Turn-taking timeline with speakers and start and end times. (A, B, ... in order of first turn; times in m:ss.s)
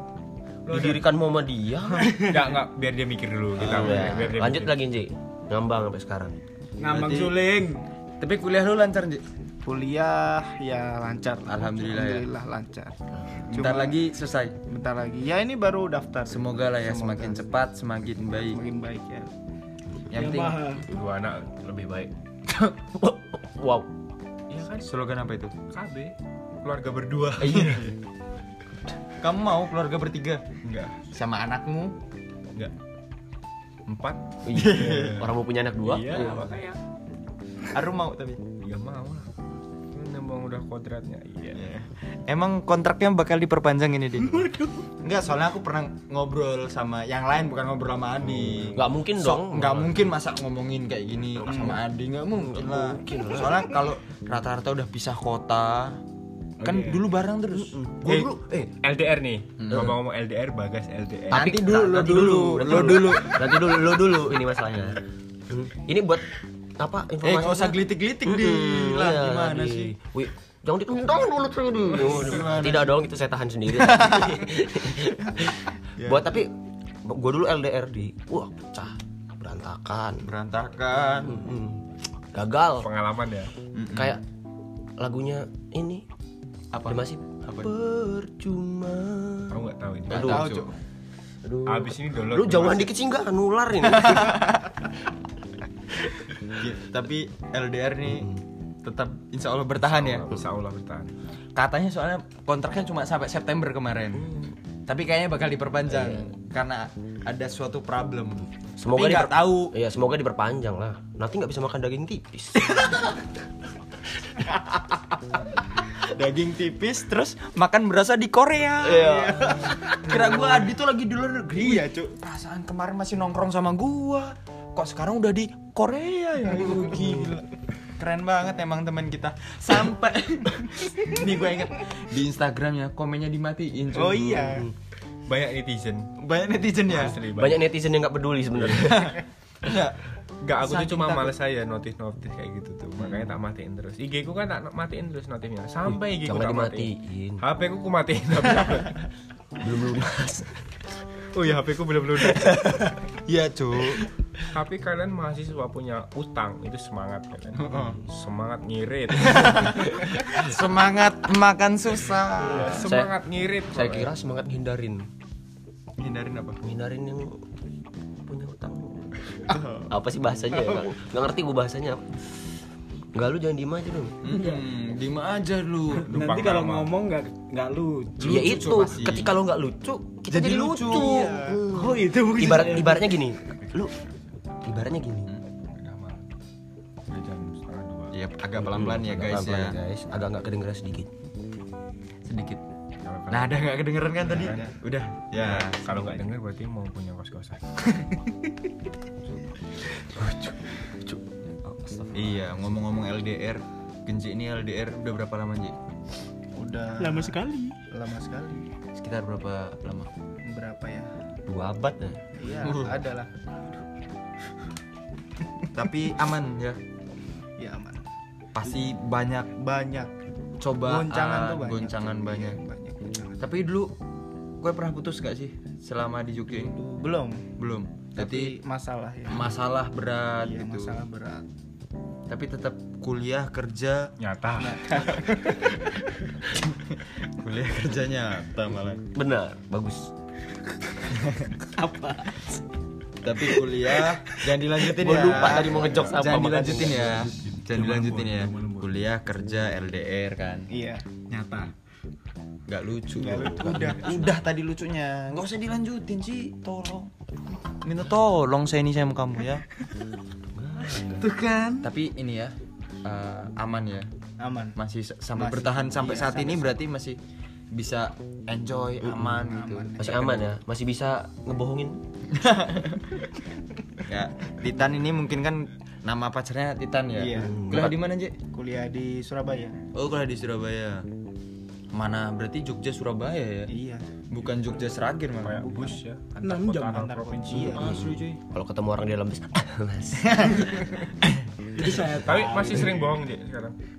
0:00.6-0:01.1 A
0:00.7-0:02.2 B
0:02.0-0:02.4 C
0:02.2-0:04.7 A
0:03.6-0:06.3 B
0:06.8-0:07.8 C
0:06.8-0:07.4 D
0:08.2-0:09.2 D
0:09.6-0:12.9 E
0:11.4-0:12.2 D
0:13.5-0:14.5 D
0:13.5-0:14.0 E
0:14.7-0:17.4 E
0:16.3-0:18.6 D
0:18.5-0:19.3 E
0:20.1-0:20.6 D
0:20.1-0:20.9 C
0:20.8-0:22.7 A
0:22.9-0:23.9 B
0:24.5-0:24.9 A
0:24.8-0:25.5 D
0:25.7-0:27.9 A
0:27.4-0:27.8 B
0:27.5-0:27.8 D
0:29.2-0:31.9 D
0:30.6-0:31.1 A
0:33.9-0:35.3 A
0:34.4-0:36.4 B
0:34.5-0:35.2 D
0:35.8-0:36.8 A
0:37.7-0:38.4 D
0:38.6-0:39.3 A
0:39.9-0:41.6 A
0:41.5-0:56.0 D
0:48.7-0:50.1 B
0:51.4-0:51.8 B
0:51.5-0:51.8 E
0:52.3-0:53.8 B
0:56.6-0:57.1 C
0:56.6-0:58.3 D
0:57.5-0:58.7 B
0:58.8-1:01.6 A
0:59.6-0:59.9 D
1:01.3-1:16.5 B
1:01.3-1:03.8 D
1:07.2-1:09.9 D
1:12.0-1:13.0 D
1:13.8-1:14.3 D
1:16.0-1:16.3 D
1:17.0-1:20.3 B
1:20.2-1:21.4 D
1:21.2-1:22.9 B
1:22.8-1:23.5 A
1:23.7-1:24.1 D
1:23.9-1:24.2 B
1:25.0-1:26.0 B
1:26.7-1:27.7 D
1:26.9-1:30.6 B
1:29.5-1:30.6 A
1:30.1-1:30.7 D
1:31.4-1:34.5 B
1:31.6-1:32.9 A
1:34.0-1:34.4 D
1:36.6-1:38.3 D
1:38.8-1:40.3 D
1:39.8-1:41.1 A
1:41.6-1:44.3 D
1:44.2-1:44.5 B
1:44.9-1:49.7 D
1:45.9-1:46.3 B
1:48.8-1:52.9 B
1:55.9-2:14.6 D
1:58.8-2:00.5 B
2:01.6-2:02.1 E
2:13.9-2:14.7 E
2:15.2-2:16.1 A
2:16.2-2:17.2 D
2:16.9-2:17.6 A
2:17.2-2:19.1 B
2:18.5-2:19.0 A
2:18.9-2:20.0 D
2:20.4-2:29.0 A
2:20.6-2:21.3 D
2:23.0-2:23.3 D
2:25.8-2:27.4 B
2:29.6-2:30.6 B
2:31.3-2:32.7 A
2:32.4-2:34.0 D
2:34.5-2:40.4 A
2:37.5-2:38.0 D
2:39.2-2:42.9 D
2:42.4-2:44.1 A
2:42.7-2:43.1 B
2:43.7-2:45.0 B
2:46.0-2:46.6 D
2:46.6-2:47.4 B
2:48.2-2:52.4 B
2:49.5-2:49.8 E
2:53.1-2:54.3 B
2:54.2-2:56.4 D
2:54.3-2:54.6 C
2:56.0-2:58.9 C
2:56.1-2:56.9 A
2:58.2-3:03.9 B
2:58.2-2:59.3 D
2:58.4-2:59.0 A
3:00.3-3:01.6 D
3:01.0-3:01.5 E
3:01.6-3:03.1 C
3:03.4-3:04.5 A
3:04.6-3:05.3 B
3:05.7-3:06.3 A
3:07.1-3:08.1 A
3:08.1-3:09.8 D
3:08.6-3:11.1 B
3:12.2-3:12.6 D
3:13.0-3:13.7 A
3:13.3-3:15.9 D
3:14.2-3:14.7 A
3:14.3-3:14.6 E
3:15.4-3:17.6 A
3:20.1-3:22.2 B
3:22.1-3:25.8 D
3:26.6-3:27.4 E
3:27.0-3:27.8 C
3:27.9-3:28.7 E
3:29.0-3:30.1 D
3:30.4-3:31.1 E
3:31.5-3:32.3 B
3:32.4-3:33.3 E
3:32.6-3:33.0 D
3:35.7-3:36.8 D
3:37.6-3:38.0 E
3:38.5-3:39.5 D
3:39.6-3:40.1 E
3:40.6-3:42.6 D
3:40.8-3:43.4 E
3:43.4-3:43.9 D
3:44.6-3:46.7 D
3:46.5-3:47.4 E
3:47.6-3:48.6 D
3:48.2-3:49.5 E
3:49.3-3:51.0 D
3:50.4-3:51.4 E
3:52.3-3:54.1 D
3:54.2-3:55.0 A
3:54.6-3:55.2 E
3:55.2-3:55.6 D
3:56.5-3:59.0 D
3:59.1-4:00.1 B
4:01.6-4:02.6 C
4:03.2-4:10.7 D
4:04.0-4:04.4 C
4:05.0-4:07.3 B
4:07.2-4:08.9 C
4:10.7-4:11.1 E
4:11.3-4:11.7 C
4:12.7-4:17.1 D
4:13.1-4:14.2 E
4:13.6-4:13.9 A
4:13.6-4:14.2 B
4:17.8-4:19.6 D
4:20.5-4:21.3 B
4:20.8-4:21.9 C
4:21.8-4:24.1 D
4:24.4-4:24.7 E
4:24.7-4:27.2 D
4:25.4-4:26.8 E
4:27.7-4:30.4 D
4:29.0-4:29.4 B
4:29.4-4:30.4 E
4:30.0-4:32.0 B
4:32.3-4:33.2 D
4:34.0-4:38.4 D
4:37.2-4:37.6 E
4:37.4-4:38.0 B
4:38.5-4:39.8 E
4:39.9-4:41.0 D
4:41.9-4:43.7 D
4:43.7-4:44.0 E
4:44.3-4:45.7 D
4:45.4-4:47.9 A
4:45.6-4:48.2 E
4:46.4-4:48.1 C
4:47.8-4:50.9 B
4:47.8-4:48.4 D
4:50.3-4:51.4 D
4:51.8-4:53.2 C
4:52.2-4:53.8 A